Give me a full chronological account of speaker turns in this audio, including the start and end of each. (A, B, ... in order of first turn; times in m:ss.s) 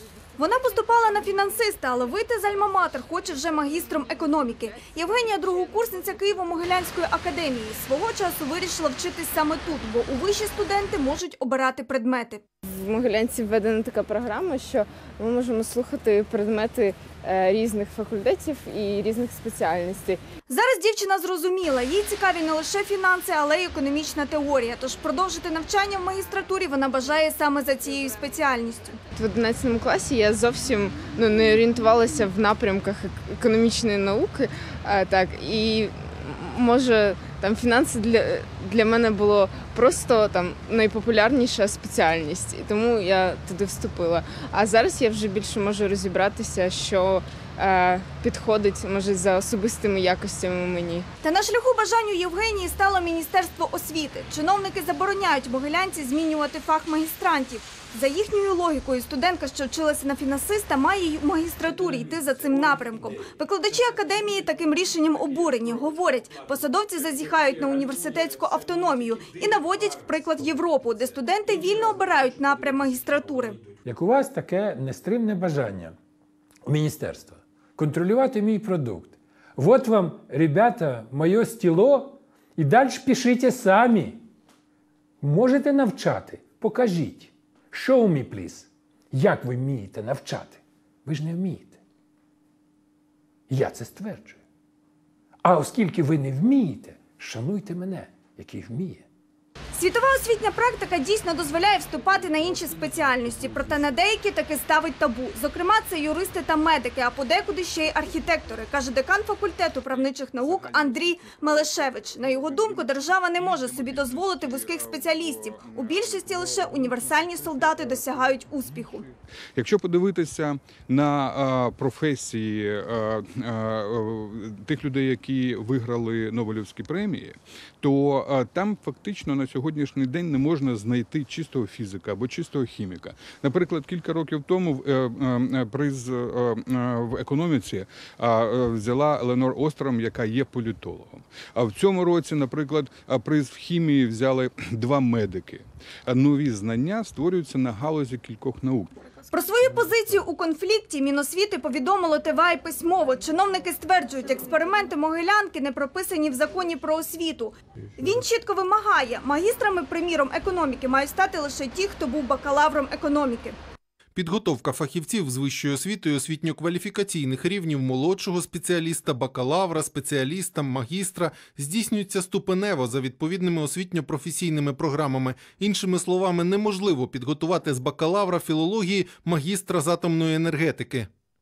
0:00.4-0:12.4 A
0:12.7-0:20.2 B
0:20.5-0:29.0 A
0:29.2-0:51.1 B
0:51.2-1:13.6 A
1:13.8-1:16.0 C
1:16.7-1:24.2 C
1:25.2-1:31.8 C
1:33.5-1:34.4 C
1:35.4-1:39.0 C
1:39.7-1:59.0 A
1:50.0-2:28.9 D
2:29.3-2:43.6 A
2:44.2-3:01.1 E